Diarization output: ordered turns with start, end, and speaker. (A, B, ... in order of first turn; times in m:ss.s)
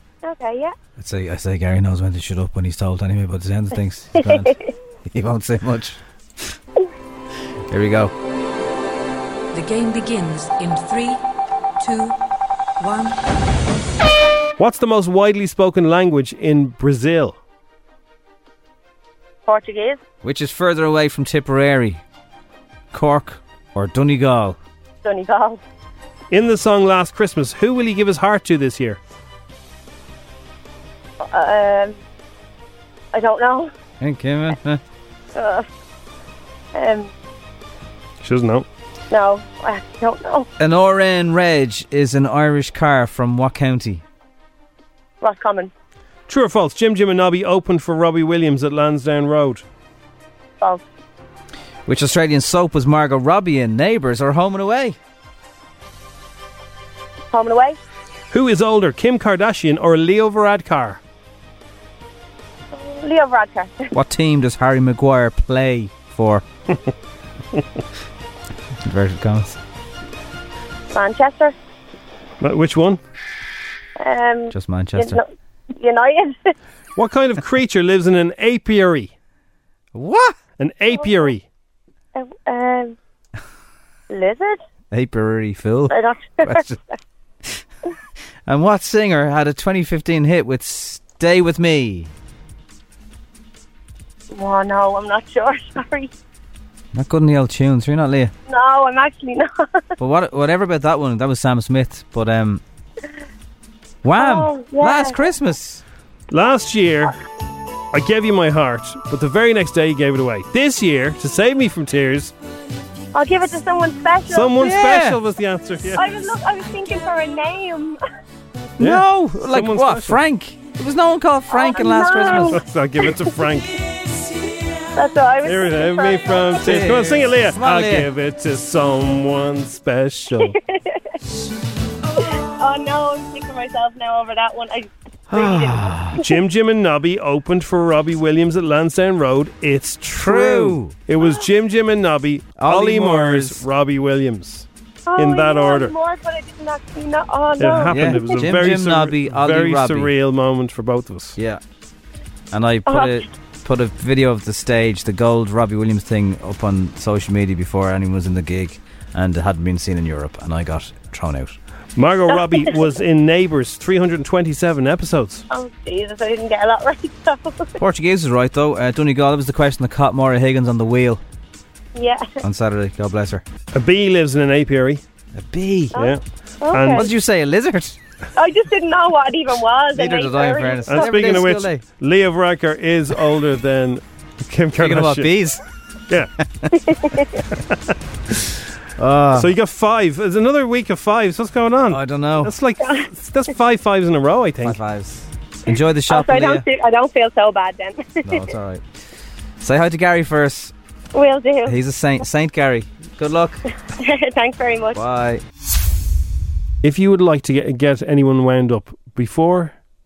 0:00.2-0:00.7 A
0:01.0-0:04.5 B
0:04.2-0:04.6 A
0:05.1-0:06.0 B
0:07.7-0:08.1 B
0:09.5-0:11.2 C
0:11.8-0:12.2 C
0:12.8-0:13.2 C
0:14.6-0:17.4 D
0:19.5-0:20.0 A
0:20.2-0:22.0 B
0:22.9-0:24.6 B
0:25.0-0:25.6 A
0:26.3-0:29.0 D
0:31.2-0:32.0 A
0:33.1-0:33.7 A
0:34.0-0:34.8 B
0:35.3-0:35.6 A
0:36.7-0:37.1 A
0:38.2-0:38.7 D
0:39.1-0:40.5 A
0:40.6-0:44.0 B
0:45.2-0:45.7 A
0:46.3-0:49.6 D
0:51.8-0:55.0 B
0:57.3-0:57.8 A
0:58.3-1:01.0 D
1:02.7-1:03.8 A
1:03.9-1:06.4 B
1:08.8-1:09.6 B
1:10.9-1:11.5 A
1:12.4-1:13.0 D
1:14.0-1:16.5 A
1:14.5-1:15.2 B
1:17.0-1:19.1 D
1:19.9-1:20.4 B
1:20.6-1:21.4 D
1:20.9-1:21.3 A
1:22.1-1:22.9 A
1:24.1-1:24.6 A
1:24.9-1:26.8 B
1:25.9-1:26.7 A
1:28.5-1:32.1 B
1:34.3-1:36.1 A
1:36.9-1:38.3 B
1:38.5-1:39.5 A
1:40.0-1:42.6 B
1:44.0-1:45.8 B
1:44.2-1:45.2 A
1:46.3-1:47.1 D
1:47.9-1:52.3 D
1:53.1-1:54.5 A
1:54.3-1:56.0 D
1:54.6-1:55.2 B
1:55.9-1:58.0 A
1:58.8-2:00.2 D
1:58.8-2:02.6 B
2:01.5-2:03.1 A
2:02.4-2:03.8 D
2:04.9-2:06.8 A
2:05.4-2:10.5 D
2:06.6-2:08.1 B
2:10.4-2:11.0 A
2:12.2-2:16.2 A
2:15.3-2:16.2 B
2:16.2-2:25.9 D
2:20.2-2:21.0 B
2:22.6-2:23.6 B
2:25.1-2:28.3 A
2:27.6-2:31.4 D
2:27.9-2:30.1 B
2:31.4-2:31.6 B
2:32.5-2:41.6 B
2:32.8-2:33.2 A
2:42.0-2:45.4 D
2:42.3-2:42.7 A
2:45.5-2:47.7 A
2:47.8-2:51.2 B
2:51.9-2:52.3 A
2:52.4-2:53.4 B
2:53.7-2:55.0 D
2:55.3-2:56.1 B
2:55.9-2:56.2 D
2:55.9-2:57.1 A
2:56.7-2:57.1 D
2:56.9-2:58.0 B
2:58.4-3:01.5 A
2:59.9-3:01.8 B
3:00.9-3:05.3 D
3:04.8-3:05.6 B
3:06.7-3:07.4 A
3:09.0-3:09.5 B
3:09.3-3:14.8 D
3:11.9-3:12.5 B
3:12.8-3:13.1 A
3:14.6-3:16.6 B
3:16.1-3:18.5 A
3:18.2-3:18.8 B
3:19.6-3:20.7 B
3:21.1-3:21.8 A
3:21.6-3:23.6 B
3:24.0-3:25.0 A
3:24.9-3:25.4 B
3:26.8-3:29.8 D